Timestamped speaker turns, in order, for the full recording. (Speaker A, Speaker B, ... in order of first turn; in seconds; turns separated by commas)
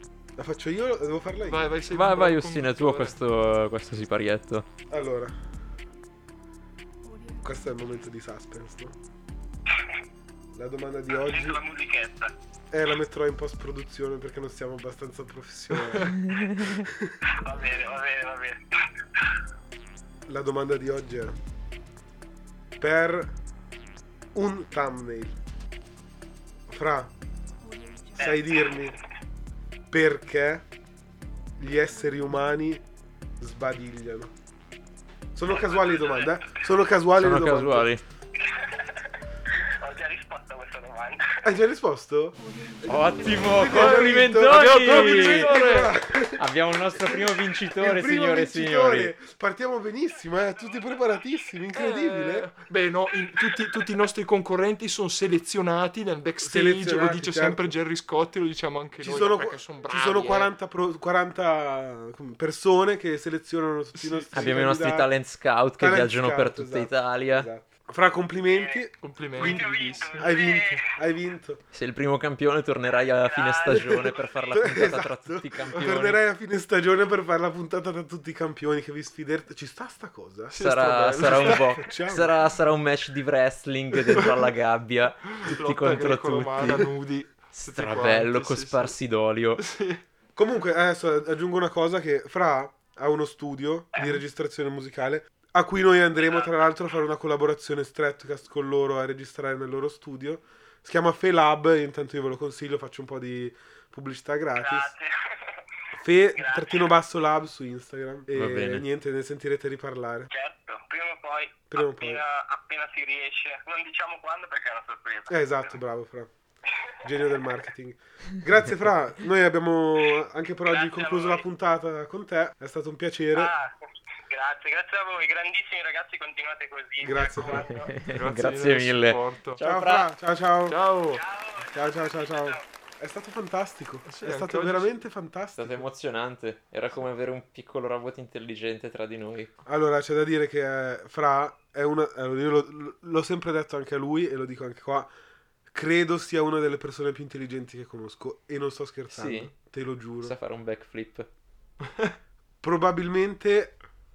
Speaker A: 0.4-1.7, Speaker B: 1.4-3.1, Speaker C: 1.9-4.7, Speaker A: 4.9-5.3, Speaker A: 7.4-9.0, Speaker A: 10.5-11.6, Speaker D: 11.1-12.3, Speaker A: 12.7-17.2, Speaker C: 16.1-16.9, Speaker D: 17.3-19.3, Speaker A: 20.3-21.4, Speaker A: 22.8-23.3, Speaker A: 24.3-25.4, Speaker A: 26.7-27.1, Speaker D: 28.1-28.9, Speaker A: 28.1-29.0, Speaker A: 29.9-30.6, Speaker A: 31.6-32.8, Speaker A: 33.4-34.3, Speaker A: 35.4-37.9, Speaker D: 35.5-36.5, Speaker C: 37.1-38.0, Speaker D: 38.4-41.5, Speaker A: 41.4-52.5, Speaker C: 42.8-45.7, Speaker B: 43.7-45.9, Speaker C: 46.3-49.1, Speaker B: 51.7-60.5, Speaker A: 56.4-57.7, Speaker A: 59.0-65.1, Speaker B: 64.0-64.3, Speaker C: 64.3-67.5, Speaker A: 65.8-71.6, Speaker D: 68.5-70.8, Speaker B: 69.0-70.5, Speaker C: 71.7-76.2, Speaker D: 73.3-74.2, Speaker A: 73.7-80.5, Speaker B: 80.5-81.8, Speaker C: 80.5-86.9, Speaker A: 81.2-82.3, Speaker B: 85.4-88.9, Speaker A: 86.6-86.9, Speaker C: 87.5-89.6, Speaker B: 89.6-90.0, Speaker A: 90.4-104.9, Speaker D: 93.9-94.2, Speaker D: 96.2-96.6, Speaker D: 104.5-105.6, Speaker A: 105.9-110.3, Speaker D: 106.4-106.9, Speaker C: 108.3-108.8, Speaker D: 110.3-115.7, Speaker A: 111.7-112.2, Speaker A: 115.3-116.3, Speaker A: 117.0-123.5, Speaker D: 117.0-117.4, Speaker D: 120.7-121.4, Speaker D: 123.3-127.9, Speaker A: 127.0-127.7, Speaker C: 127.7-130.1, Speaker B: 128.0-129.6, Speaker A: 129.6-130.8, Speaker B: 130.7-131.2, Speaker D: 131.1-132.6, Speaker A: 131.6-135.9, Speaker B: 134.1-134.9, Speaker C: 135.6-139.5, Speaker A: 139.7-145.1, Speaker A: 145.7-150.3, Speaker C: 149.1-149.5, Speaker C: 150.2-151.3, Speaker B: 151.9-152.1, Speaker A: 152.6-153.7